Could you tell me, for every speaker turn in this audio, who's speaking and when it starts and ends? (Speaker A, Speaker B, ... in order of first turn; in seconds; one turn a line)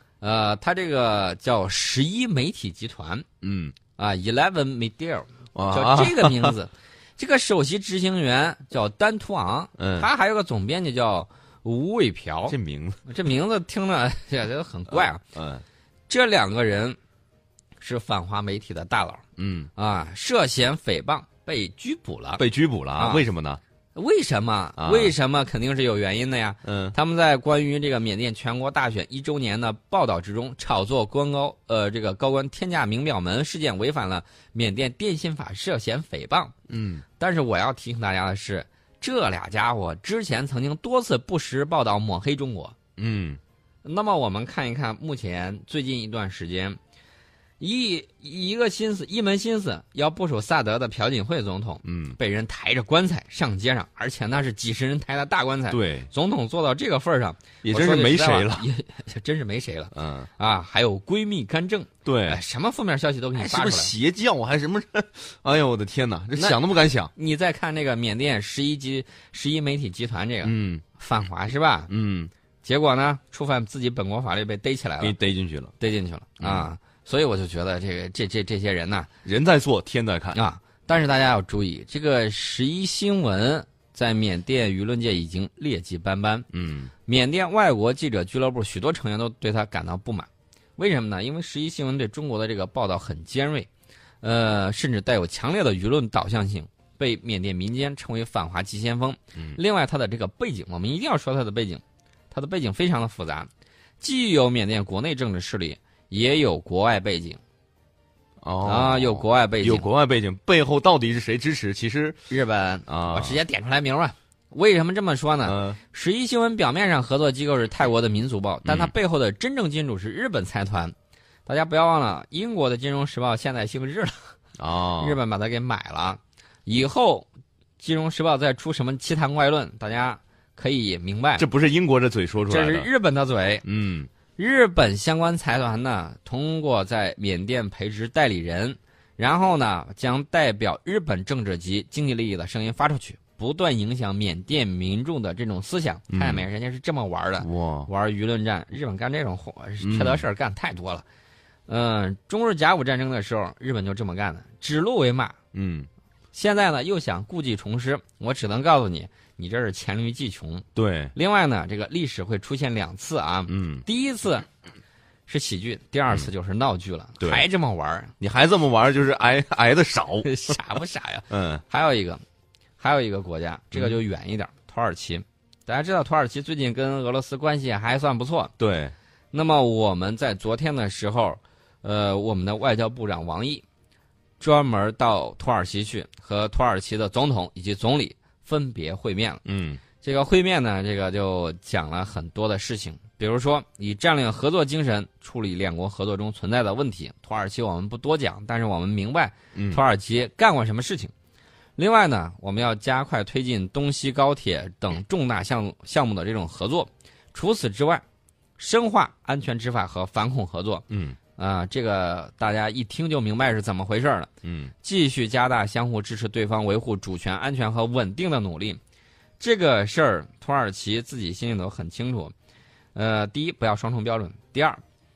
Speaker A: 0.2-3.2
Speaker B: 3.4-3.8
Speaker A: 4.0-15.2
Speaker B: 5.5-6.5
Speaker B: 9.8-10.1
Speaker B: 12.5-13.0
Speaker B: 14.9-15.6
Speaker A: 16.1-17.0
Speaker A: 17.8-19.2
Speaker B: 19.4-19.7
Speaker A: 19.8-22.4
Speaker B: 22.4-23.6
Speaker A: 23.0-23.2
Speaker A: 23.9-36.5
Speaker B: 24.8-25.1
Speaker B: 26.6-26.9
Speaker B: 36.7-37.0
Speaker A: 37.2-42.7
Speaker B: 43.0-43.4
Speaker A: 43.8-46.8
Speaker A: 47.6-63.9
Speaker B: 51.8-52.2
Speaker B: 55.7-56.1
Speaker B: 57.6-58.7
Speaker B: 59.9-60.3
Speaker B: 62.0-62.4
Speaker B: 63.3-67.1
Speaker A: 66.3-66.6
Speaker A: 67.1-71.9
Speaker B: 70.4-70.8
Speaker B: 71.9-72.3
Speaker A: 72.6-75.1
Speaker B: 75.0-75.7
Speaker A: 75.8-79.1
Speaker B: 76.4-76.7
Speaker B: 79.2-80.4
Speaker A: 80.3-86.5
Speaker B: 86.5-86.9
Speaker A: 87.1-93.7
Speaker A: 94.2-103.5
Speaker A: 104.0-107.4
Speaker B: 108.4-112.2
Speaker A: 108.6-109.9
Speaker A: 112.3-120.9
Speaker B: 112.9-113.4
Speaker B: 115.4-115.8
Speaker B: 118.6-118.9
Speaker A: 121.5-124.3
Speaker B: 124.6-125.2
Speaker A: 125.0-127.3
Speaker A: 127.8-131.4
Speaker B: 131.4-132.9
Speaker A: 132.5-133.6
Speaker B: 133.6-134.1
Speaker A: 134.4-151.0
Speaker B: 146.1-146.4
Speaker B: 147.4-147.9
Speaker B: 149.8-150.2
Speaker A: 151.7-155.4
Speaker B: 155.5-155.9
Speaker A: 156.3-164.4
Speaker B: 160.7-161.1
Speaker B: 163.5-163.8
Speaker A: 165.3-168.1
Speaker B: 167.2-167.4
Speaker B: 168.2-170.5
Speaker A: 170.2-172.2
Speaker B: 171.3-171.6
Speaker A: 172.8-178.5
Speaker B: 178.6-178.9
Speaker A: 179.3-183.6
Speaker A: 184.4-189.4
Speaker B: 189.4-189.8
Speaker A: 190.0-201.1
Speaker B: 199.5-199.8
Speaker A: 201.8-208.0
Speaker A: 208.6-210.8
Speaker B: 210.9-211.2
Speaker A: 211.4-214.3
Speaker B: 214.4-214.7
Speaker A: 214.8-218.8
Speaker A: 219.4-222.3
Speaker A: 222.9-224.8